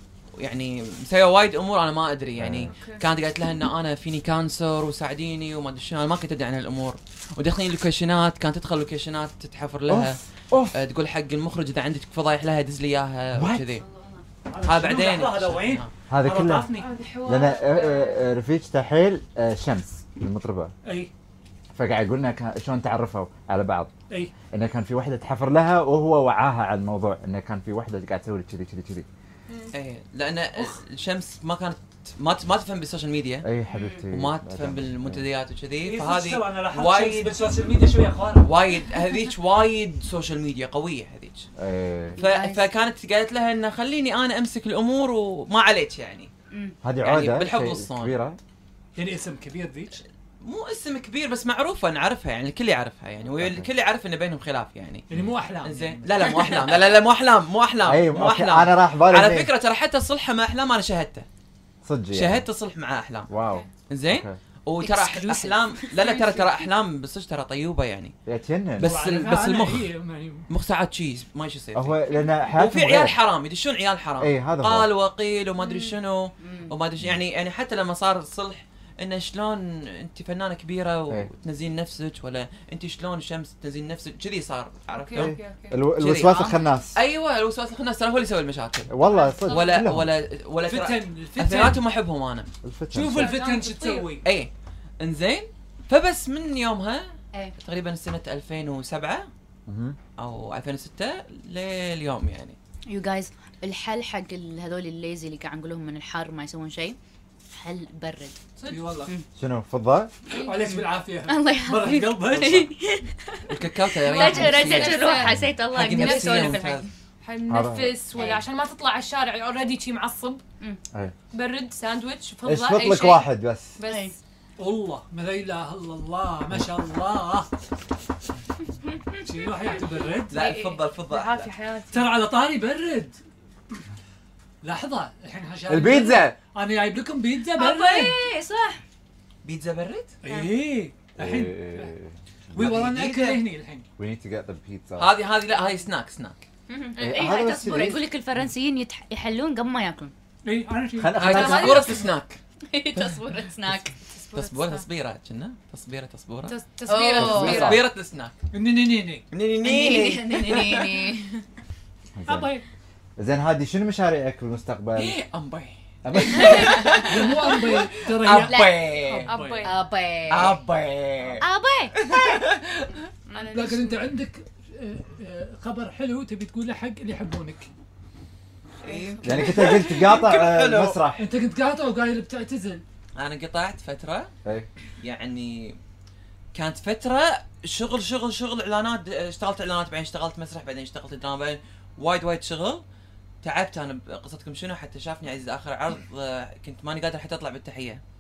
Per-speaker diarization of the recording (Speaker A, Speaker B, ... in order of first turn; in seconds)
Speaker A: 0.4-10.2, 10.7-13.8, 14.7-15.9, 29.7-33.5, 34.1-37.4, 38.4-41.5, 42.2-46.3, 47.0-48.1, 50.4-55.1, 55.6-61.3, 62.1-63.3, 63.9-68.1, 68.8-69.9, 70.5-72.0, 72.5-85.3, 86.0-88.9, 89.5-92.5, 94.2-99.3, 100.2-102.6, 113.5-116.9, 130.3-131.5, 139.4-140.1, 142.6-143.4, 145.0-146.4, 151.2-152.4, 154.3-156.6, 157.3-158.4, 159.3-161.1, 165.0-169.3, 170.3-171.4, 172.0-173.0, 178.8-181.0, 183.2-184.3, 185.0-185.8, 186.5-192.8, 193.4-198.0
Speaker B: 2.4-2.7, 9.9-10.8, 13.3-13.7, 16.1-16.7, 17.2-20.7, 21.7-23.9, 24.5-29.1, 33.4-35.2, 41.6-42.2, 46.8-48.4, 53.4-53.7, 57.9-59.5, 61.9-62.5, 63.3-64.4, 68.3-68.9, 71.7-73.2, 74.2-74.9, 85.2-87.0, 88.9-90.1, 92.6-93.4, 99.7-100.0, 109.4-110.1, 117.5-118.0, 122.5-123.8, 135.7-136.4, 141.2-142.9, 144.0-145.2, 147.0-148.1, 151.0-152.0, 157.2-157.8, 162.2-162.5, 163.2-165.2, 166.0-167.0, 179.2-181.3
Speaker C: 2.7-3.0, 16.8-18.2, 66.0-66.4, 75.6-75.9, 84.9-85.8, 89.0-89.9, 93.1-94.2, 108.6-108.9, 114.0-120.4, 121.3-124.2, 130.4-132.1, 147.0-147.3, 151.3-152.0, 154.1-154.8, 156.5-157.8, 169.3-169.8, 173.3-174.1, 178.9-179.6
Speaker D: 13.8-14.2, 33.7-34.1, 42.2-42.7, 46.5-46.8, 64.8-66.2, 76.4-76.7, 86.0-86.6, 102.9-107.0, 107.5-108.4, 110.6-116.9, 118.1-118.5, 123.8-124.2, 137.6-138.8, 146.7-150.1, 152.7-154.0, 156.9-157.8, 159.6-161.4, 166.5-167.1, 168.4-169.0, 169.6-170.6, 171.4-172.1
Speaker E: 14.5-16.9, 35.8-38.5, 49.0-50.0, 55.1-56.4, 68.8-70.5, 90.6-91.8, 92.9-94.2, 108.7-109.1, 110.4-112.7, 124.6-127.5, 129.2-130.5, 131.9-133.2, 134.6-138.2, 140.2-141.9, 142.5-143.9, 150.4-151.2, 158.5-159.2, 162.3-162.7, 167.0-169.7, 173.5-177.7, 181.2-182.8